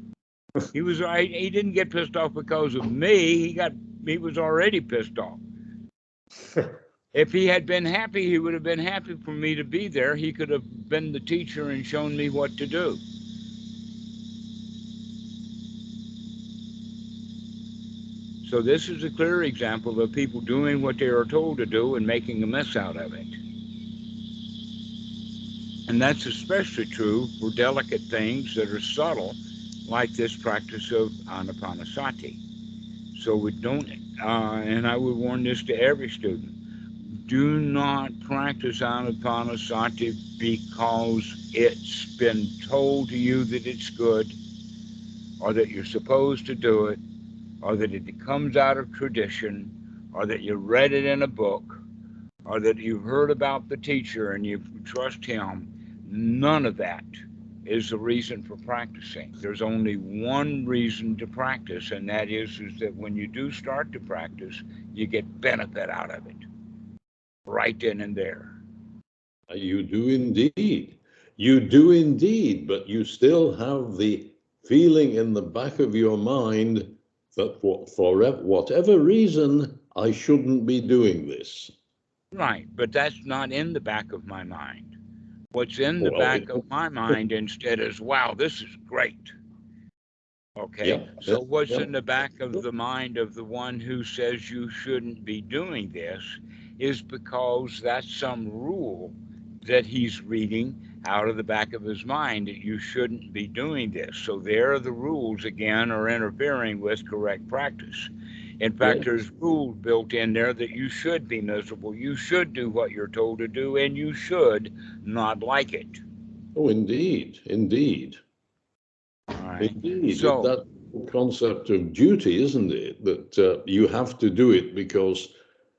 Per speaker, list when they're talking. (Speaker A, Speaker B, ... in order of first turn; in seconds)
Speaker A: 0.7-5.4, 7.1-13.0, 18.4-23.4, 25.9-32.4, 33.1-36.5, 37.1-44.4, 45.4-47.0, 47.6-51.8, 52.5-57.1, 57.6-66.4, 67.5-68.6, 82.3-84.9, 85.5-89.3, 90.6-116.0, 119.3-120.5
Speaker B: 69.5-81.7, 86.0-86.6, 90.8-91.9, 108.8-109.1, 116.5-118.2, 119.6-125.3